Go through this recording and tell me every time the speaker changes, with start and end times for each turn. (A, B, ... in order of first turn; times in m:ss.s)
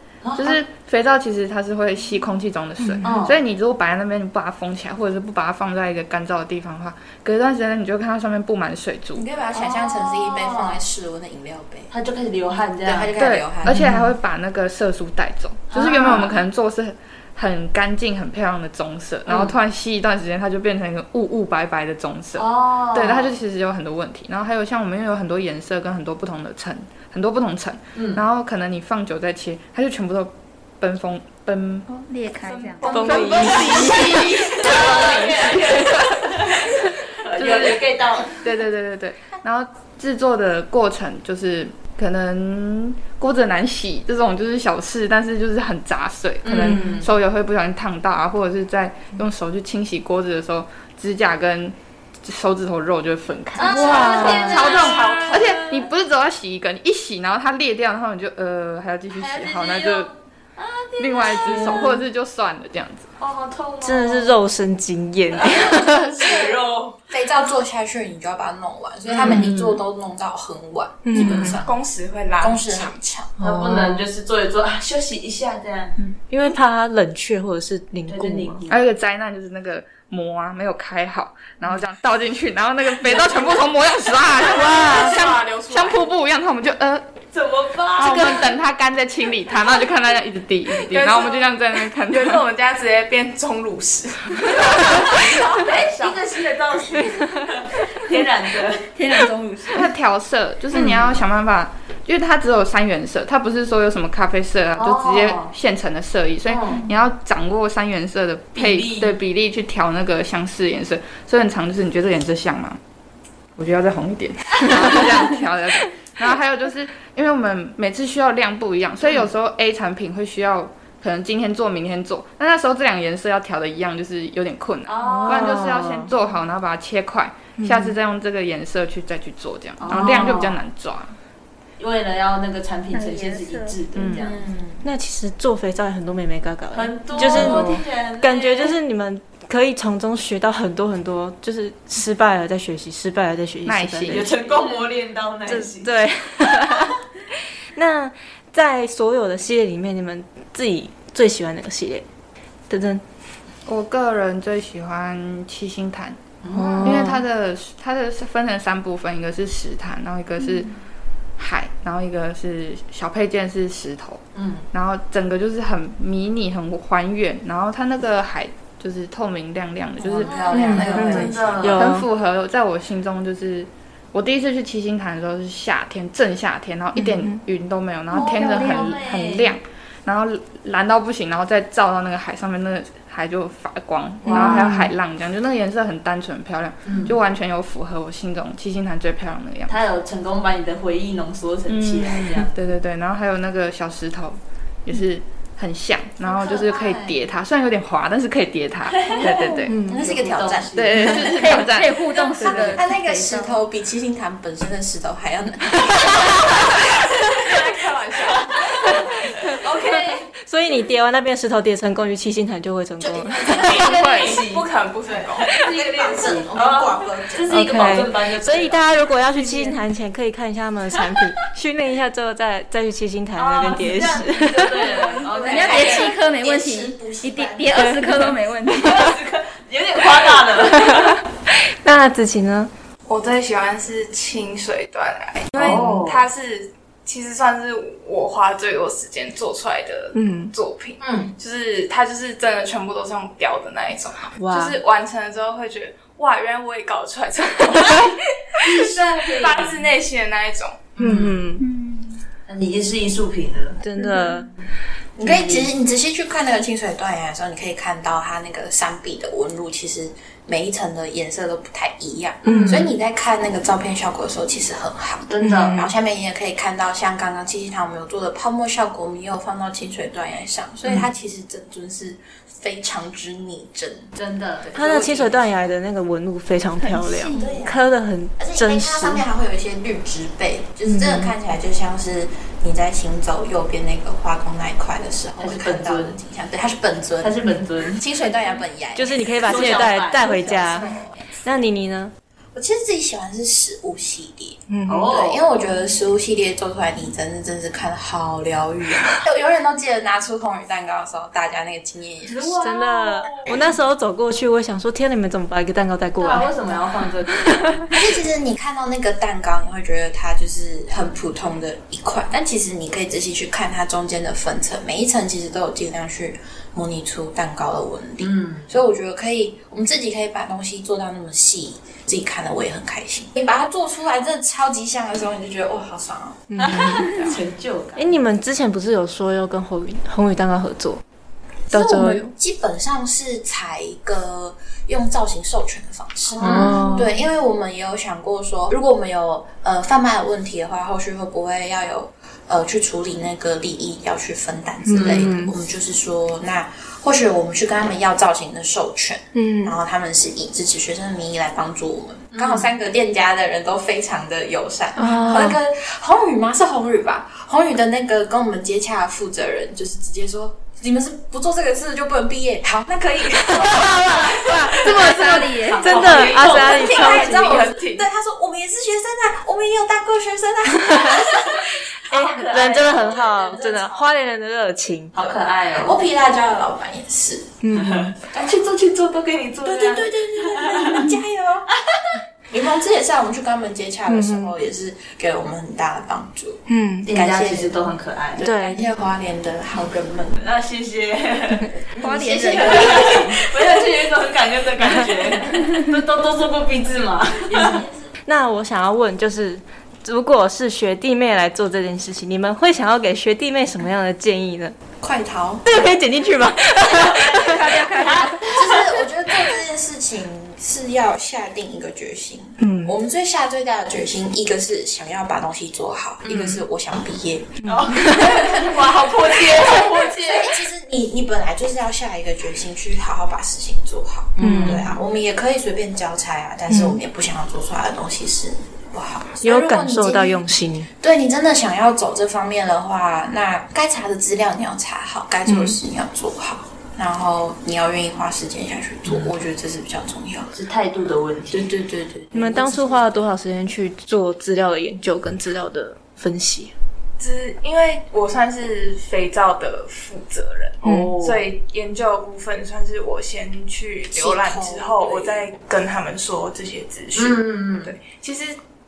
0:00.2-0:00.6 A
0:00.4-0:09.2 B
0:03.0-0:03.4 A
0:09.1-0:11.9 C
0:09.5-0:10.8 A
0:11.9-0:13.1 A
0:12.8-0:13.8 C
0:13.2-0:31.9 B
0:13.6-0:14.1 D
0:15.7-0:16.4 A
0:22.4-0:23.4 A
0:27.9-0:28.2 A
0:31.9-0:33.7 E
0:32.8-0:36.0 B
0:32.8-0:34.2 D
0:32.8-0:38.4 A
0:37.3-1:00.1 B
0:46.4-0:47.1 A
0:53.6-0:55.9 A
0:53.7-0:54.9 D
0:59.1-1:02.0 A
1:01.0-1:03.1 B
1:03.2-1:04.4 A
1:03.8-1:06.2 D
1:05.3-1:07.0 A
1:06.2-1:11.8 C
1:09.2-1:09.5 A
1:09.2-1:09.7 D
1:11.0-1:11.6 D
1:11.2-1:11.5 A
1:11.6-1:13.0 F
1:12.4-1:13.3 C
1:13.4-1:14.1 D
1:13.4-1:16.1 A
1:16.3-1:18.6 D
1:18.1-1:18.8 A
1:18.7-1:27.1 B
1:24.3-1:26.0 F
1:24.9-1:25.4 A
1:27.3-1:28.6 A
1:28.0-1:32.4 B
1:30.8-1:31.6 F
1:32.1-1:36.2 F
1:34.6-1:38.9 A
1:38.9-1:39.9 E
1:39.7-1:52.8 B
1:44.8-1:45.5 A
1:46.5-1:46.8 A
1:48.5-1:49.1 A
1:53.6-2:11.2 B
2:04.8-2:05.8 A
2:05.0-2:06.1 D
2:07.6-2:08.0 D
2:09.8-2:10.6 A
2:09.9-2:10.3 D
2:11.8-2:14.4 A
2:12.9-2:13.8 E
2:13.9-2:14.2 B
2:14.2-2:14.8 C
2:14.8-2:24.5 D
2:16.7-2:18.7 A
2:17.4-2:17.6 B
2:23.6-2:24.3 B
2:24.1-2:26.0 A
2:25.4-2:27.0 D
2:27.8-2:32.0 D
2:32.7-2:33.0 D
2:33.6-2:36.2 B
2:36.4-2:37.1 A
2:36.5-2:37.2 D
2:36.8-2:40.7 B
2:41.4-2:50.4 B
2:44.3-2:44.6 A
2:50.0-2:51.7 C
2:50.2-2:51.8 A
2:50.5-2:52.1 D
2:51.7-3:09.7 B
2:57.0-2:57.4 D
2:58.1-2:59.0 E
2:58.1-2:59.5 A
3:04.2-3:04.9 A
3:04.3-3:04.8 D
3:06.8-3:07.1 A
3:09.7-3:12.6 A
3:11.7-3:19.7 B
3:16.2-3:17.1 A
3:19.0-3:21.7 A
3:19.7-3:20.0 D
3:19.9-3:21.2 C
3:20.8-3:22.8 B
3:21.0-3:21.2 D
3:21.2-3:23.6 E
3:22.4-3:27.1 C
3:27.4-3:29.2 F
3:28.8-3:34.0 D
3:29.2-3:30.3 A
3:33.0-3:33.8 C
3:33.4-3:34.7 A
3:33.8-3:34.4 B
3:34.0-3:35.6 F
3:35.4-3:38.9 A
3:35.5-3:38.0 C
3:37.5-3:44.8 D
3:39.2-3:39.8 E
3:43.4-3:46.2 A
3:44.8-3:49.1 E
3:45.0-3:47.9 C
3:47.8-3:48.4 D
3:48.7-3:51.2 A
3:50.7-3:51.1 D
3:51.8-3:52.7 D
3:53.1-4:11.0 F
3:55.5-3:55.8 D
3:55.5-3:56.2 A
4:00.1-4:00.5 D
4:01.0-4:01.3 A
4:04.4-4:04.8 D
4:08.6-4:09.9 A
4:11.0-4:11.4 A
4:11.0-4:11.6 D
4:11.6-4:12.2 E
4:12.5-4:13.8 A
4:13.8-4:14.5 D
4:15.2-4:34.1 C
4:15.2-4:15.7 A
4:22.4-4:22.8 D
4:25.3-4:25.9 A
4:25.4-4:25.8 D
4:34.1-4:34.9 A
4:34.6-4:35.7 C
4:34.7-4:39.2 D
4:36.8-4:37.6 E
4:37.3-4:37.8 C
4:38.4-4:51.2 C
4:40.9-4:41.3 D
4:45.4-4:46.2 A
4:47.2-4:48.0 A
4:48.9-4:52.1 D
4:49.4-4:50.9 A
4:52.5-4:54.6 C
4:54.7-4:55.2 D
4:54.8-4:55.4 A
4:55.1-5:02.6 C
5:02.3-5:03.6 A
5:02.6-5:06.7 D
5:06.2-5:07.9 A
5:07.2-5:08.0 D
5:07.9-5:27.4 C
5:18.2-5:18.7 A
5:26.5-5:27.1 D
5:26.6-5:28.2 A
5:28.0-5:31.0 D
5:31.7-5:32.3 D
5:31.7-6:14.0 C
5:36.3-5:36.9 A
5:36.4-5:37.1 D
5:44.9-5:45.5 D
5:44.9-5:45.3 A
5:49.3-5:49.7 D
5:52.3-5:52.7 A
5:55.0-5:55.6 D
6:03.5-6:04.3 D
6:03.5-6:06.8 A
6:04.3-6:06.2 E
6:05.1-6:07.7 D
6:06.2-6:08.0 F
6:12.1-6:15.1 D
6:12.2-6:13.3 A
6:15.1-6:16.0 A
6:15.2-6:17.5 C
6:17.6-6:18.2 D
6:17.7-6:21.1 A
6:19.6-6:21.7 C
6:22.5-6:26.6 C
6:24.1-6:24.5 D
6:26.7-6:27.1 D
6:27.0-6:28.5 A
6:27.1-6:30.4 C
6:28.4-6:28.8 D
6:30.4-6:37.8 A
6:32.0-6:33.6 C
6:32.0-6:33.2 E
6:37.4-6:38.1 C
6:38.2-6:44.8 D
6:45.0-6:45.8 C
6:45.6-6:48.4 D
6:47.0-6:48.8 A
6:47.7-6:48.2 E
6:48.5-7:10.4 C
6:52.6-6:52.9 D
6:56.2-6:56.6 A
6:57.6-6:58.3 D
6:57.7-7:00.6 A
7:04.4-7:05.0 A
7:04.4-7:04.8 D
7:06.7-7:07.0 D
7:09.4-7:10.9 D
7:11.0-7:20.6 C
7:15.5-7:15.8 D
7:20.5-7:21.7 A
7:21.5-7:23.1 C
7:22.3-7:26.7 D
7:27.2-7:38.6 F
7:30.8-7:31.4 A
7:30.8-7:31.2 D
7:34.1-7:35.5 C
7:37.1-7:38.0 A